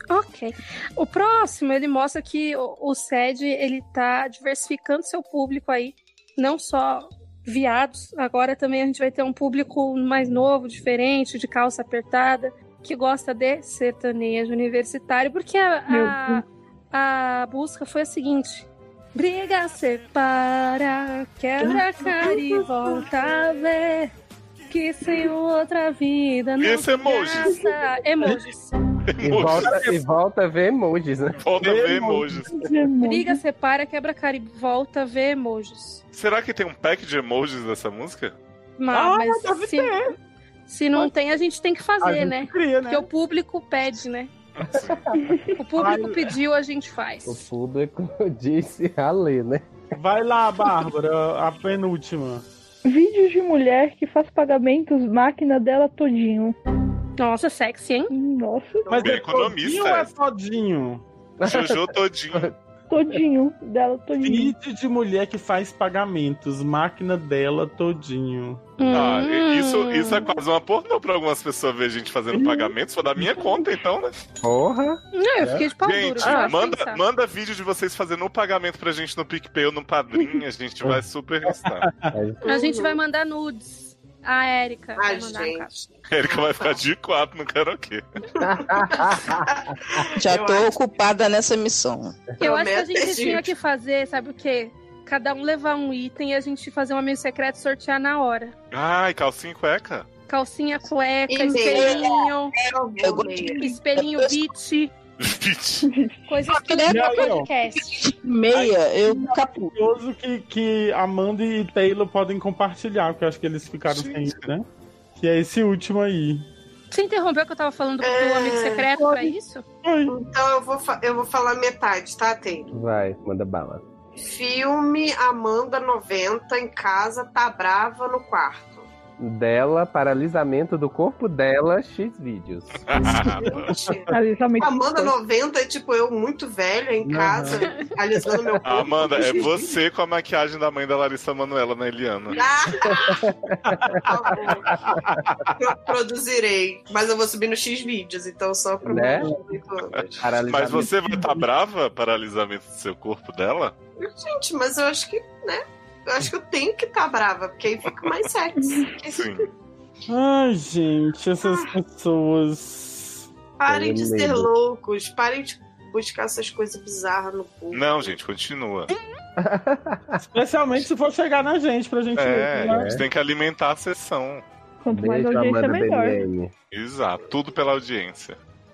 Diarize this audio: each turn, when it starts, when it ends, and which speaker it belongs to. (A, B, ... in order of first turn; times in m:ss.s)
0:00.1-0:24.1 A
0:15.9-0:16.4 B
0:24.7-0:28.7 A
0:26.6-0:27.6 C
0:29.1-0:29.9 C
0:29.2-0:31.4 D
0:29.6-0:30.0 E
0:31.4-0:32.5 C
0:31.6-0:32.5 E
0:32.5-0:33.4 B
0:33.0-0:36.0 A
0:36.1-0:38.4 C
0:38.8-0:40.0 A
0:38.9-0:40.1 E
0:40.7-0:44.3 A
0:42.0-0:43.1 E
0:44.6-0:45.0 C
0:44.7-0:45.2 D
0:45.6-0:47.4 A
0:45.8-0:46.3 E
0:47.3-0:49.7 D
0:50.0-0:52.4 E
0:52.8-0:56.6 B
0:57.2-0:58.1 A
0:58.1-0:58.9 B
0:58.9-0:59.3 F
0:58.9-1:01.0 E
0:59.0-1:00.1 C
1:01.4-1:02.5 D
1:01.4-1:02.5 C
1:02.9-1:04.6 B
1:04.2-1:08.6 E
1:08.8-1:10.4 A
1:08.9-1:14.2 C
1:12.3-1:12.7 E
1:14.4-1:15.0 D
1:15.1-1:17.0 A
1:15.8-1:21.9 C
1:21.5-1:22.2 E
1:22.1-1:22.4 D
1:22.4-1:23.0 F
1:22.4-1:25.7 A
1:25.0-1:26.8 F
1:26.1-1:28.0 C
1:28.4-1:30.8 F
1:28.4-1:29.5 D
1:30.2-1:32.3 G
1:32.4-1:33.5 F
1:32.4-1:38.5 A
1:38.7-1:40.1 C
1:40.3-1:42.6 A
1:41.3-1:43.7 F
1:41.7-1:44.5 G
1:43.6-1:44.9 A
1:45.2-1:45.9 C
1:45.8-1:46.2 B
1:46.3-1:48.1 A
1:46.5-1:49.8 G
1:46.9-1:47.5 E
1:48.5-1:54.6 E
1:53.9-1:54.4 C
1:55.2-1:56.4 E
1:56.9-1:59.6 A
1:58.0-1:59.1 F
1:59.8-2:00.2 E
2:00.1-2:02.7 F
2:02.7-2:03.8 D
2:04.2-2:08.9 F
2:09.2-2:12.8 D
2:12.9-2:13.7 C
2:13.5-2:19.5 F
2:14.1-2:15.1 B
2:17.0-2:17.6 D
2:17.6-2:17.9 A
2:18.6-2:22.4 C
2:22.3-2:23.3 F
2:22.8-2:24.0 D
2:24.0-2:24.9 F
2:24.7-2:25.5 E
2:25.6-2:30.2 F
2:28.8-2:29.4 D
2:29.9-2:33.7 C
2:30.2-2:30.9 D
2:30.8-2:31.4 E
2:34.0-2:39.3 F
2:39.1-2:39.5 C
2:40.1-2:43.3 E
2:41.4-2:41.7 F
2:43.6-2:48.2 F
2:43.7-2:44.5 D
2:47.7-2:48.9 C
2:49.4-2:50.2 D
2:50.2-2:53.0 E
2:52.2-2:54.4 C
2:52.6-2:53.0 D
2:54.8-2:56.3 B
2:54.9-2:56.5 D
2:56.7-2:58.4 C